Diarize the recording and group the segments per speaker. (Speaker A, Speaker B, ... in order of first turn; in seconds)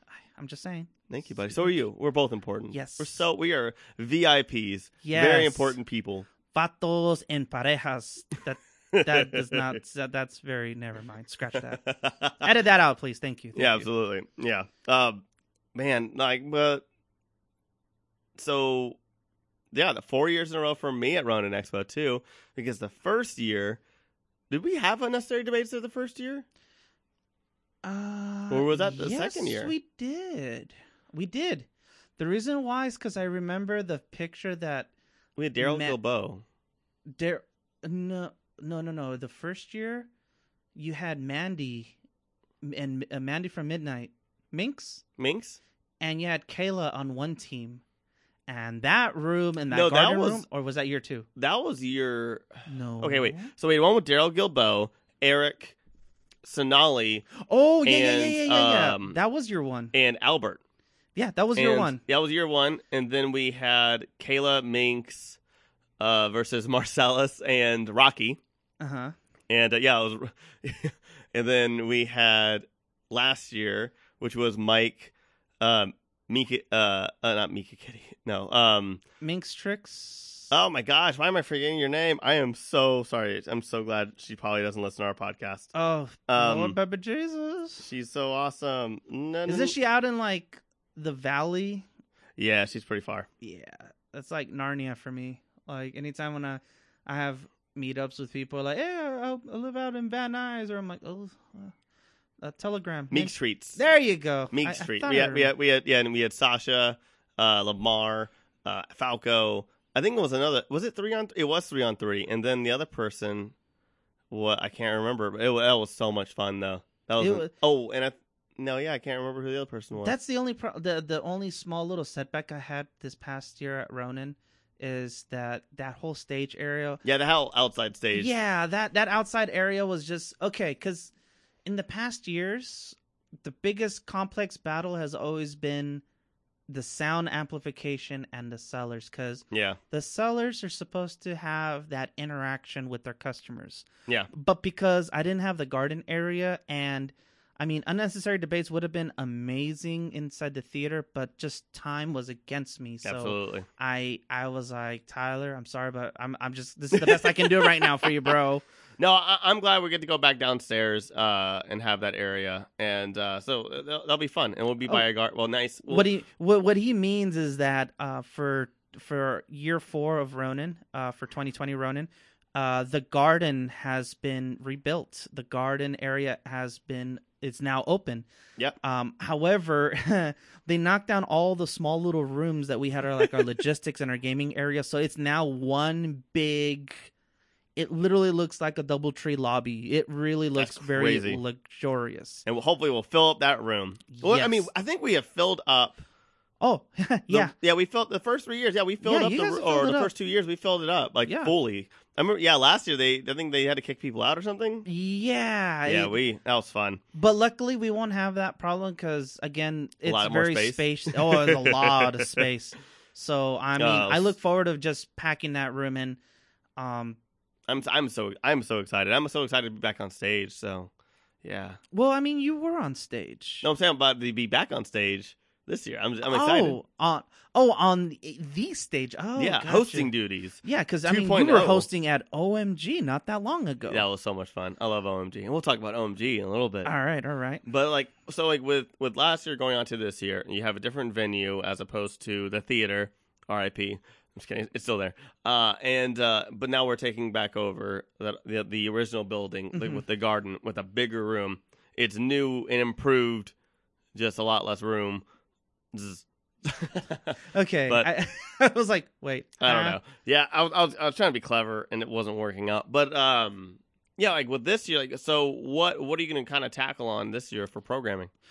Speaker A: 0.3-1.7, 2.7-3.2, 5.0-5.8, 6.5-13.9, 27.8-31.7, 32.2-34.9, 35.6-36.0, 37.1-40.1, 40.8-42.0, 42.6-45.0, 46.0-47.8, 48.5-51.3, 52.7-53.5, 57.4-59.9, 61.2-62.0, 68.8-69.1, 79.2-80.5, 85.7-87.9, 89.5-91.9, 93.4-101.7, 102.4-105.5, 117.2-117.5, 120.0-127.0, 128.1-131.1, 131.7-136.0, 136.7-158.6, 165.9-178.3, 178.8-187.1, 187.8-192.4, 194.1-194.7, 196.6-197.5, 199.0-200.1, 201.3-201.5, 204.8-206.2, 207.1-216.2, 216.8-217.2, 221.9-223.7, 226.3-230.1, 230.6-234.1, 236.8-237.7, 249.7-250.0, 257.5-260.0
Speaker B: 1.1-6.3, 8.9-9.8, 11.8-12.5, 13.6-15.2, 15.8-16.9, 18.4-19.0, 19.7-23.8, 24.5-26.4, 28.5-29.7, 35.4-36.4, 45.2-45.6, 49.7-50.5, 51.4-52.5, 53.0-55.8, 56.4-57.3, 57.9-59.2, 59.9-60.6, 61.5-65.4, 66.0-68.4, 69.5-79.0, 80.5-85.7, 86.3-86.8, 87.8-89.7, 92.4-93.3, 103.1-103.8, 104.5-113.5, 114.3-120.1, 127.0-128.3, 139.5-139.8, 153.0-153.7, 156.9-158.3, 159.0-166.1, 190.6-191.4, 192.5-196.0, 197.3-204.9, 205.9-207.0, 210.1-212.5, 213.8-214.3, 217.7-220.9, 221.4-221.8, 223.6-226.8, 229.4-231.9, 233.9-236.9, 237.7-253.5, 254.2-255.2, 255.9-258.1, 259.6-268.3